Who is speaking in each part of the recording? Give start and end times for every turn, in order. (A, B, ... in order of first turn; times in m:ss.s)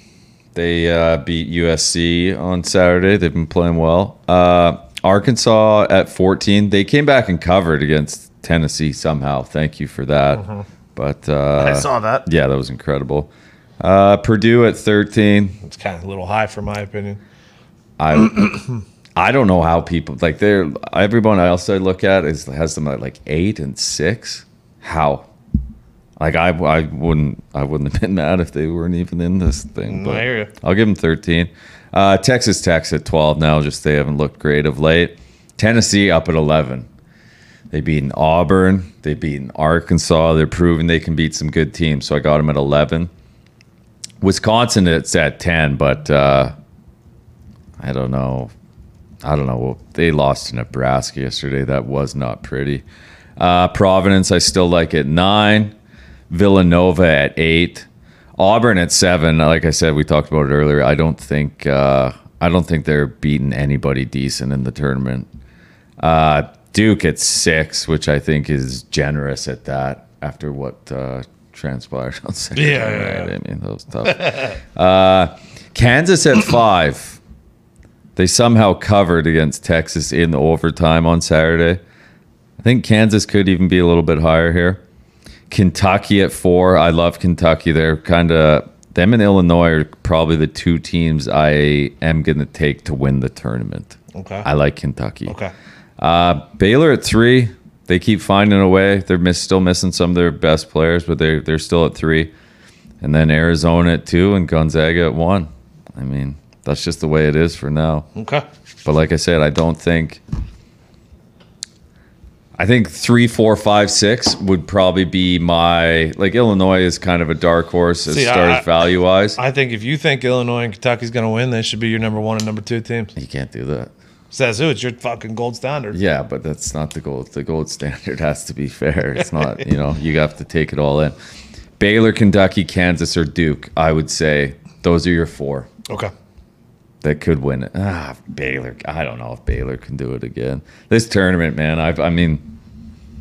0:00.5-0:15.6 A
0:10.3-0:10.6 B
0:11.6-0:12.3 B
0:15.6-0:17.2 B
0:18.0-0:25.3 A
0:26.2-0:36.9 A
0:29.9-0:30.5 B
0:37.7-0:43.1 A
0:44.2-0:46.6 A
0:47.8-0:48.5 A
0:49.2-0:52.8 A
0:53.4-0:55.7 A
0:56.3-1:05.3 A
1:06.0-1:17.2 A
1:12.6-1:13.3 B
1:14.0-1:14.6 B
1:18.2-1:21.8 A
1:22.6-1:24.8 A
1:25.5-1:35.4 A
1:34.1-1:34.5 B
1:35.3-1:35.5 B
1:36.0-1:42.3 A
1:43.0-1:48.1 A
1:48.2-1:48.5 B
1:48.8-1:50.2 A
1:52.6-1:59.4 A
1:58.1-1:58.7 B
1:59.4-2:03.1 B
2:03.2-2:03.9 A
2:04.3-2:06.0 B
2:05.9-2:11.2 A
2:11.8-2:15.7 A
2:17.0-2:22.5 A